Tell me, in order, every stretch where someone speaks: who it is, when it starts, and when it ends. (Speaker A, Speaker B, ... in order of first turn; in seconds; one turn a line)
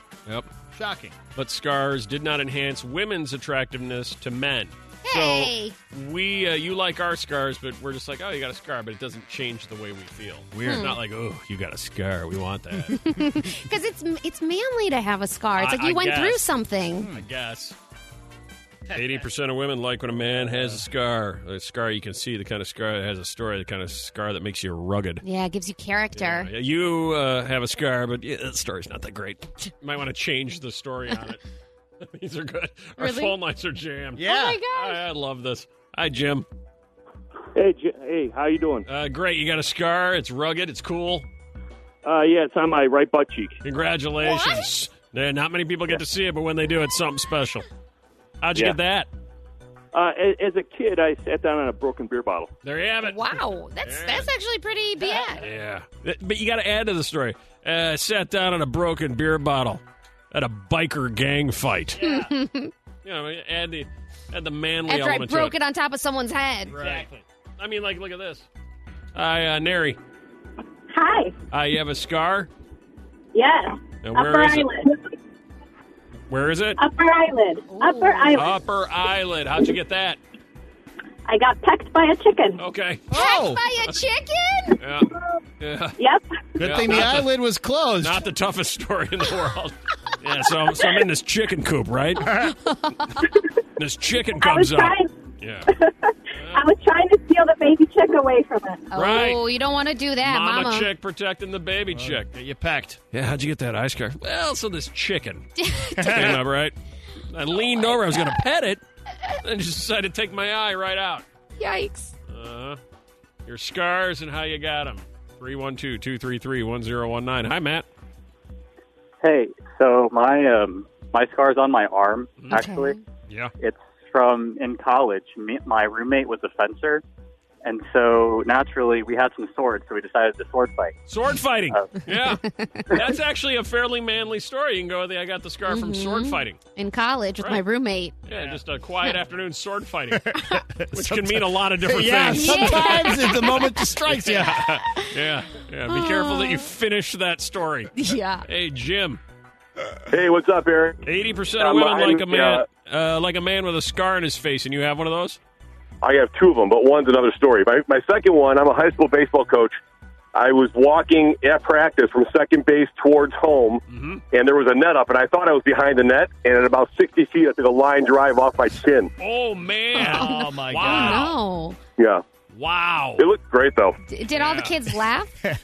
Speaker A: 0.7-1.1
Speaker B: 1.4-13.0
Speaker C: 5.0-5.8
Speaker A: 10.5-11.0
Speaker C: 10.6-11.0
Speaker C: 12.9-17.1
Speaker B: 15.5-16.5
Speaker A: 17.0-17.2
Speaker B: 17.1-17.8
Speaker A: 18.9-19.2
Speaker B: 18.9-25.2
Speaker C: 25.2-26.5
Speaker B: 26.1-31.4
Speaker B: 32.0-36.5
Speaker C: 33.0-33.4
Speaker A: 34.2-34.6
Speaker C: 34.2-35.0
Speaker D: 37.5-38.9
Speaker B: 38.9-41.2
Speaker D: 42.0-43.6
Speaker B: 43.6-47.6
Speaker C: 44.2-44.7
Speaker B: 48.4-49.1
Speaker D: 49.9-52.5
Speaker B: 52.6-54.3
Speaker C: 53.0-55.4
Speaker B: 55.4-62.0
Speaker C: 62.0-62.7
Speaker B: 63.0-65.6
Speaker C: 64.9-66.7
Speaker B: 66.7-68.5
Speaker A: 66.8-67.0
Speaker B: 69.1-70.0
Speaker E: 70.9-71.3
Speaker B: 71.5-72.5
Speaker E: 73.3-75.0
Speaker B: 74.0-74.7
Speaker B: 76.3-76.8
Speaker E: 76.8-78.5
Speaker C: 77.7-78.4
Speaker B: 78.3-80.2
Speaker E: 81.2-82.6
Speaker B: 82.6-83.1
Speaker A: 83.1-83.6
Speaker C: 83.1-84.8
Speaker B: 84.8-86.0
Speaker E: 86.0-86.2
Speaker A: 86.6-88.2
Speaker B: 86.6-87.3
Speaker B: 88.0-92.3
Speaker A: 92.2-92.5
Speaker C: 92.6-93.3
Speaker B: 93.8-95.7
Speaker E: 94.3-95.1
Speaker B: 96.3-96.7
Speaker E: 96.5-98.9
Speaker C: 98.9-100.9
Speaker B: 98.9-99.4
Speaker B: 100.2-102.3
Speaker A: 101.9-103.0
Speaker B: 103.1-105.5
Speaker C: 105.6-106.4
Speaker A: 106.0-106.4
Speaker B: 106.0-106.8
Speaker B: 107.3-108.8
Speaker B: 109.4-111.3
Speaker C: 111.6-112.1
Speaker B: 112.3-112.8
Speaker B: 113.4-117.8
Speaker F: 119.2-122.9
Speaker C: 122.5-123.0
Speaker F: 123.6-127.0
Speaker F: 127.6-131.0
Speaker B: 131.1-136.6
Speaker C: 132.4-133.0
Speaker C: 135.7-138.2
Speaker B: 138.2-147.9
Speaker A: 140.1-144.7
Speaker C: 142.2-143.8
Speaker C: 144.9-145.1
Speaker C: 145.9-146.7
Speaker C: 147.9-148.4
Speaker B: 148.4-149.2
Speaker G: 150.1-151.0
Speaker B: 151.0-155.4
Speaker G: 151.6-152.7
Speaker G: 156.0-159.8
Speaker G: 160.3-163.8
Speaker B: 163.9-164.2
Speaker G: 164.3-169.1
Speaker B: 169.2-171.3
Speaker A: 169.9-171.3
Speaker C: 170.0-171.8
Speaker G: 172.0-172.2
Speaker B: 172.5-173.3
Speaker G: 173.2-174.0
Speaker C: 174.1-175.3
Speaker B: 174.3-174.7